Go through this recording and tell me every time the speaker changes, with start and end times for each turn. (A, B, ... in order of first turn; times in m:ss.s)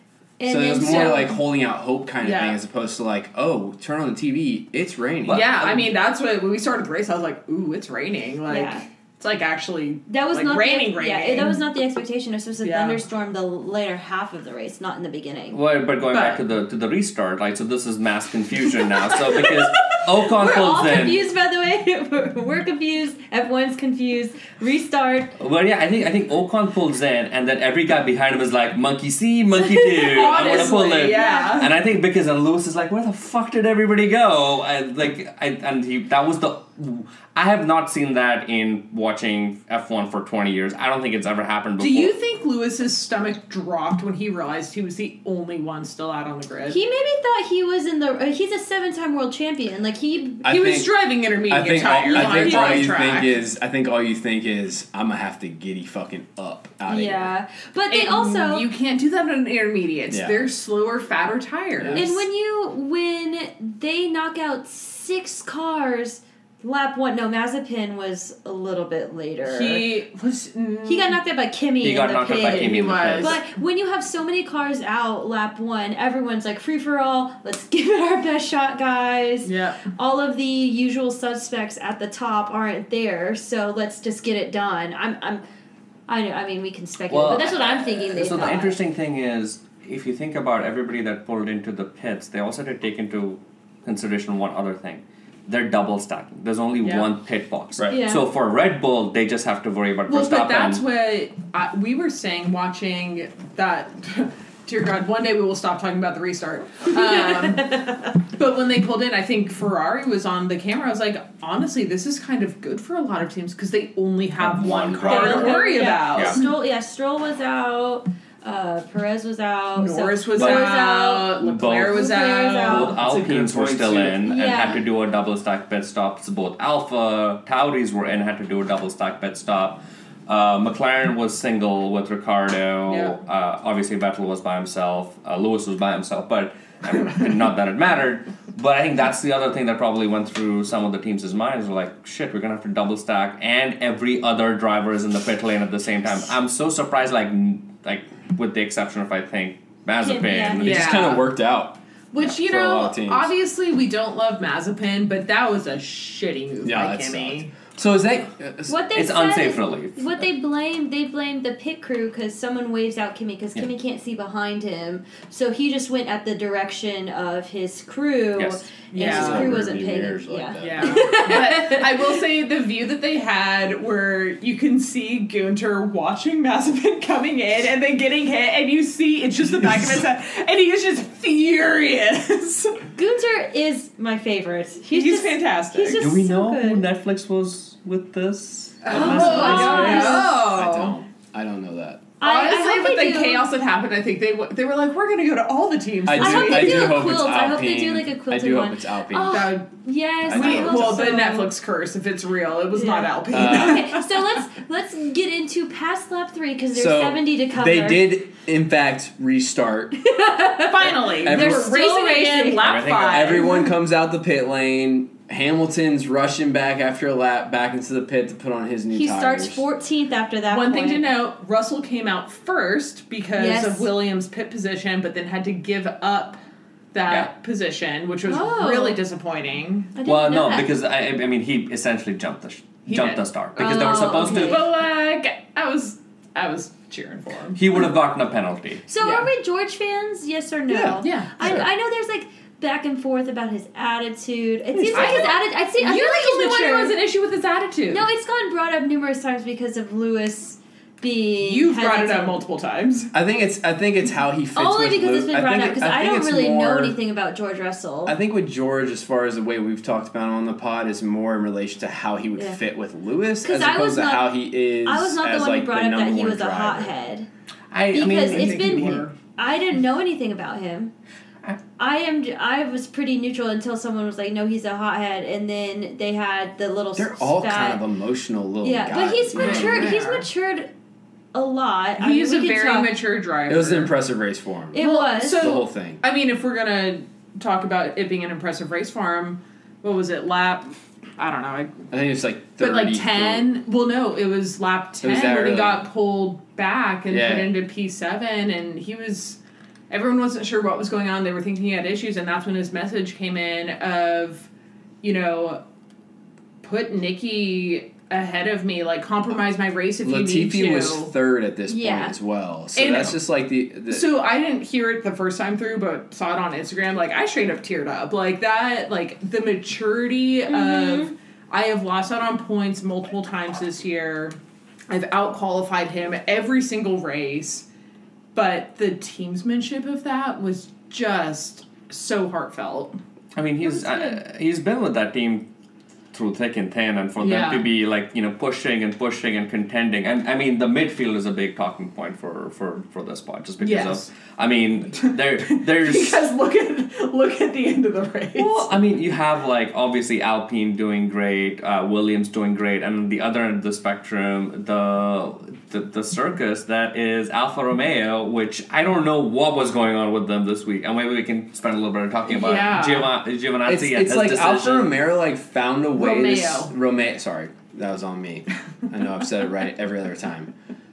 0:00.4-0:01.4 A
0:00.4-0:05.9 B
0:00.8-0:01.2 C
0:02.2-0:02.6 C
0:05.2-0:11.6 C
0:08.5-0:08.8 A
0:10.1-0:15.6 A
0:12.6-0:13.0 C
0:15.5-0:21.2 D
0:16.1-0:16.4 C
0:20.3-0:25.3 A
0:25.4-0:42.1 D
0:29.6-0:31.7 A
0:30.1-0:31.7 C
0:41.8-0:46.8 C
0:46.7-0:50.5 A
0:50.4-0:50.9 B
0:50.4-0:53.4 C
0:51.4-0:57.3 B
0:52.1-0:52.9 A
0:56.9-0:58.6 A
0:57.9-1:02.2 C
1:00.1-1:00.5 B
1:01.8-1:02.0 B
1:01.9-1:09.9 A
1:09.4-1:11.2 C
1:10.8-1:25.4 A
1:11.8-1:13.4 D
1:12.4-1:13.4 C
1:19.4-1:19.8 C
1:26.1-1:28.8 A
1:27.1-1:40.8 D
1:36.8-1:37.1 C
1:37.9-1:38.2 A
1:40.1-1:47.7 C
1:46.9-1:48.1 A
1:48.4-1:56.5 C
1:54.4-1:56.4 D
1:55.0-2:03.0 A
1:59.7-2:03.1 C
2:00.4-2:00.8 D
2:01.4-2:31.0 D
2:03.0-2:04.2 B
2:04.2-2:04.8 A
2:12.9-2:13.2 C
2:30.0-2:30.6 A
2:30.6-2:33.3 B
2:30.6-2:31.3 C
2:32.1-2:37.5 C
2:36.6-2:38.7 B
2:38.7-2:52.1 A
2:38.9-2:40.2 D
2:48.4-2:48.6 D
2:48.9-2:49.5 C
2:49.0-2:51.2 B
2:50.6-3:02.8 C
2:59.5-3:00.0 B
3:02.9-3:06.8 A
3:04.9-3:06.1 C
3:06.0-3:10.2 D
3:08.8-3:11.0 C
3:08.9-3:10.4 A
3:09.0-3:12.1 B
3:12.2-3:13.5 A
3:12.2-3:17.0 C
3:16.0-3:19.6 B
3:16.1-3:21.5 A
3:19.3-3:19.7 C
3:20.2-3:21.2 B
3:20.3-3:24.2 C
3:22.7-3:28.1 A
3:23.3-3:23.9 B
3:26.7-3:30.0 B
3:30.0-3:32.8 A
3:30.6-3:33.7 C
3:31.2-3:31.7 B
3:32.6-3:33.5 D
3:32.9-3:39.6 B
3:38.9-3:41.1 A
3:40.5-3:46.4 C
3:43.4-3:43.9 A
3:46.9-3:49.9 C
3:48.2-3:49.0 A
3:49.9-3:50.7 A
3:50.0-3:54.7 D
3:52.9-3:57.8 C
3:53.6-3:54.6 A
3:57.6-3:58.8 D
3:58.9-4:07.0 A
3:59.0-3:59.3 C
4:00.7-4:01.6 B
4:01.0-4:01.5 C
4:04.8-4:05.1 B
4:04.9-4:08.0 C
4:07.9-4:12.4 A
4:11.4-4:13.1 C
4:13.1-4:17.0 B
4:14.5-4:18.2 A
4:18.0-4:26.9 B
4:23.4-4:27.3 A
4:27.7-4:29.0 D
4:27.9-4:30.9 A
4:28.0-4:29.1 C
4:31.8-4:37.8 A
4:37.0-4:40.0 B
4:38.6-4:40.7 A
4:39.4-4:40.3 C
4:41.3-4:42.9 A
4:42.0-4:43.9 C
4:43.5-4:46.0 B
4:44.7-4:45.6 A
4:44.8-4:51.8 C
4:51.9-4:53.5 B
4:52.6-4:59.4 C
4:55.0-4:55.8 B
4:57.1-4:57.5 B
4:59.9-5:04.5 C
5:05.0-5:05.6 C
5:06.6-5:11.1 C
5:10.0-5:14.2 B
5:11.7-5:12.2 A
5:12.7-5:13.2 C
5:13.9-5:24.4 C
5:20.5-5:21.1 A
5:24.9-5:27.6 C
5:28.3-5:33.0 C
5:33.3-5:35.5 D
5:33.6-5:34.2 A
5:36.1-5:46.2 D
5:37.2-5:37.7 C
5:43.6-5:44.1 C
5:45.5-5:48.7 C
5:48.4-6:05.0 D
6:02.3-6:03.1 C
6:03.6-6:10.5 B
6:05.9-6:06.7 C